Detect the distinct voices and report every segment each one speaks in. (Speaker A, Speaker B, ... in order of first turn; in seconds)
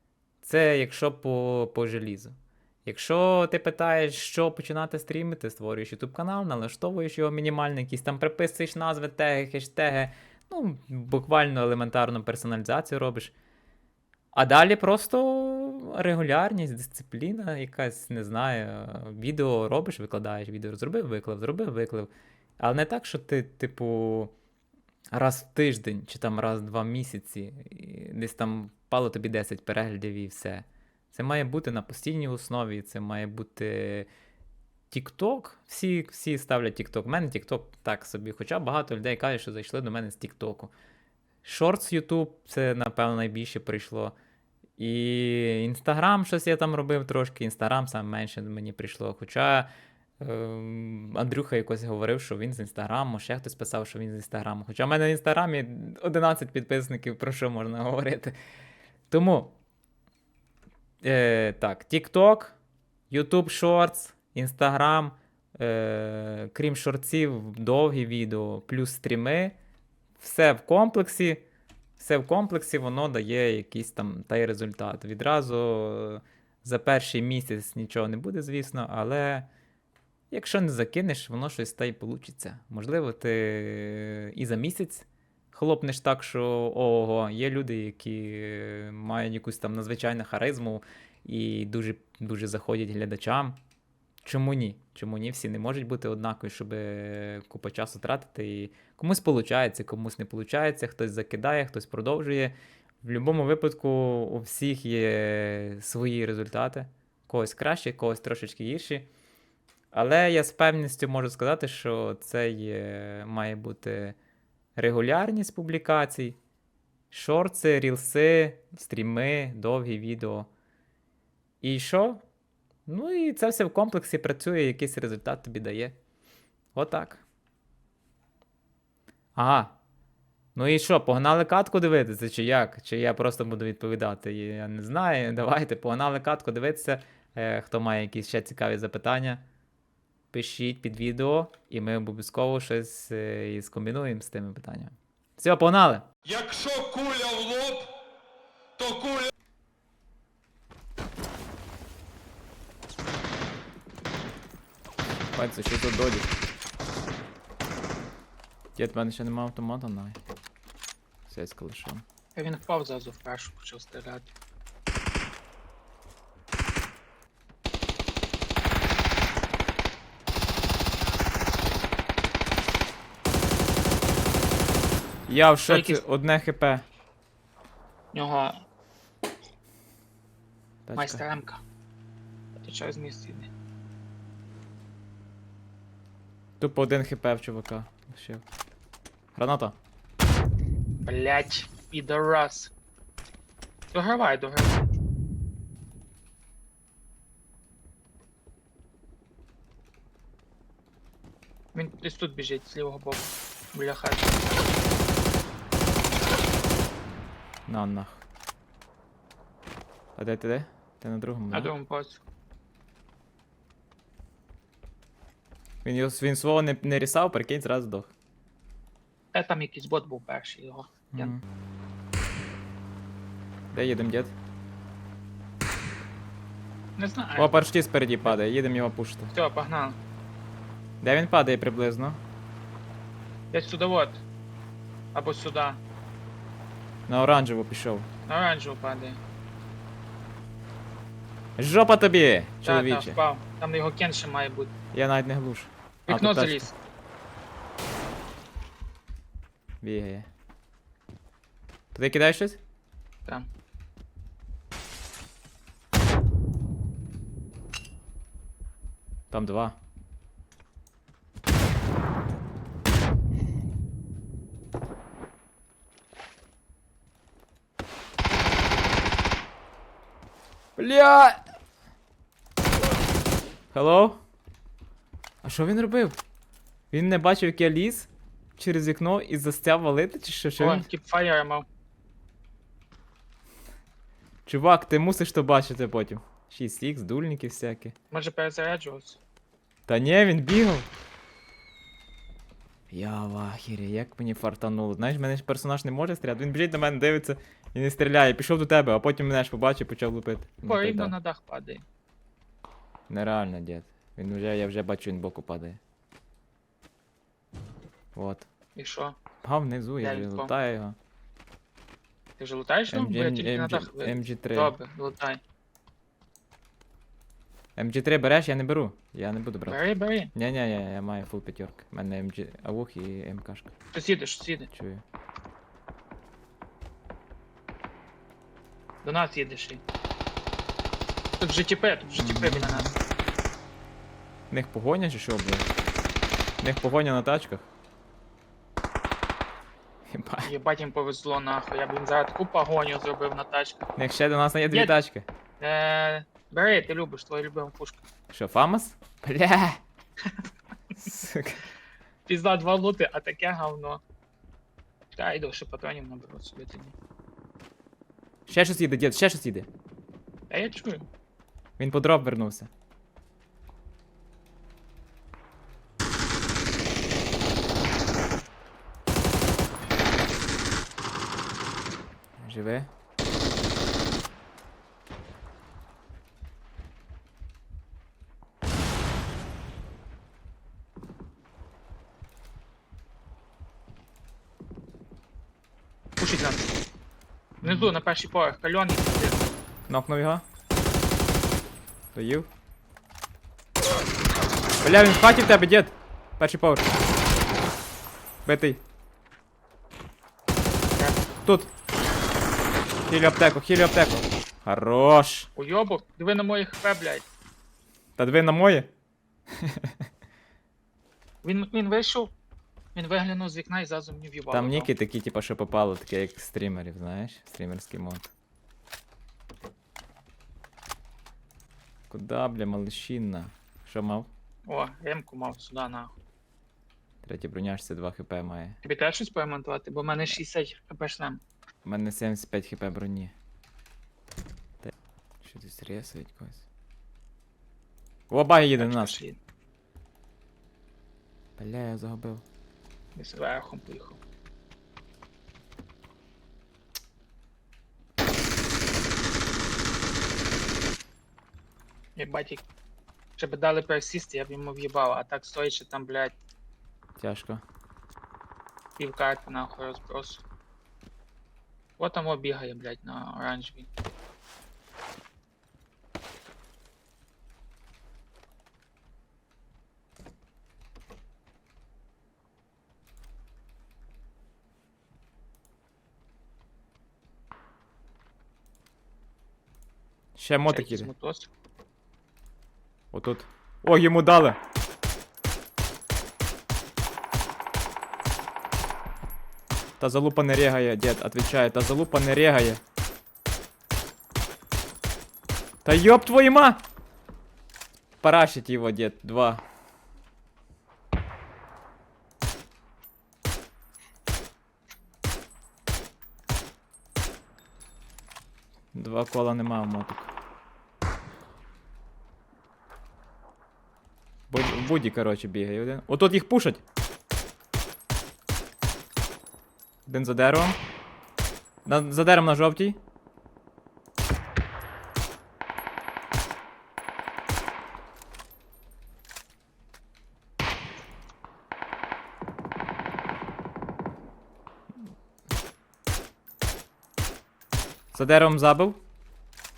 Speaker A: 0.4-13.3, 14.3-24.3, 25.1-34.1, 34.9-40.7, 41.4-44.1, 44.8-49.7, 50.2-58.4, 59.1-59.5, 61.0-62.6, 63.1-69.6, 70.2-71.4, 72.0-79.5, 80.3-93.6, 94.2-109.1, 109.9-114.2, 114.8-116.4, 117.1-120.5, 121.6-122.2, 122.9-126.0, 126.8-127.2, 129.4-129.8, 130.6-139.4, 140.3-146.1, 155.3-156.3, 158.8-160.2, 161.3-162.0, 175.3-176.8, 180.9-181.2, 186.6-188.4, 189.3-189.8, 207.7-208.2, 210.2-211.7, 215.8-218.1, 221.1-221.4, 223.7-224.3, 227.4-229.3, 231.0-232.2, 237.1-238.1, 241.6-243.2, 244.9-246.7, 249.8-250.3, 251.9-252.6, 259.3-259.8, 270.8-271.4, 273.7-274.2, 275.4-276.2, 276.9-280.9, 284.5-287.9, 289.9-290.9, 292.9-301.1, 303.1-305.8, 308.1-308.5, 309.4-311.0, 312.9-314.8, 317.8-319.8, 320.3-323.7, 324.7-325.0, 332.2-333.0, 334.5-335.7, 336.6-337.7, 340.1-340.5, 344.0-345.3, 348.3-349.8, 351.0-351.6, 358.5-359.7, 361.8-362.7, 372.4-372.9, 387.6-387.9, 389.9-390.4, 392.1-392.5, 394.8-396.9, 398.4-398.8, 401.4-401.7, 403.1-405.5, 408.2-408.9, 409.6-409.9, 414.5-418.3, 422.1-424.3, 427.2-428.8, 431.8-433.3, 434.8-436.7, 438.3-439.2, 441.6-442.4, 457.2-457.6, 480.4-481.1, 483.1-484.6, 490.0-492.8, 495.8-496.8, 498.2-499.6, 508.9-510.3, 514.5-516.8, 520.1-520.8, 521.9-523.0, 538.1-539.0
Speaker B: 146.3-147.9, 148.8-149.3
Speaker C: 162.4-164.3, 175.7-176.0, 178.1-178.6, 181.0-181.6, 182.6-183.5, 191.0-192.7, 193.9-194.9, 201.7-204.3, 211.5-212.2, 219.3-221.3, 227.0-227.6, 229.3-230.0, 233.5-234.2, 235.1-235.8, 238.3-239.2, 242.6-244.7, 246.1-246.8, 280.6-281.7, 288.1-289.2, 300.6-301.8, 308.8-309.2, 310.0-310.5, 312.4-315.4, 319.7-320.3, 323.9-324.7, 329.0-329.8, 331.4-332.9, 340.4-343.9, 345.6-348.0, 352.3-354.0, 355.2-356.9, 360.5-361.1, 386.2-386.7, 387.6-389.4, 405.6-407.3, 411.4-412.3, 412.9-414.9, 424.7-426.1, 428.8-431.4, 438.8-439.4, 443.2-444.2, 452.2-452.6, 453.4-456.3, 459.0-460.4, 462.0-463.9, 480.7-481.5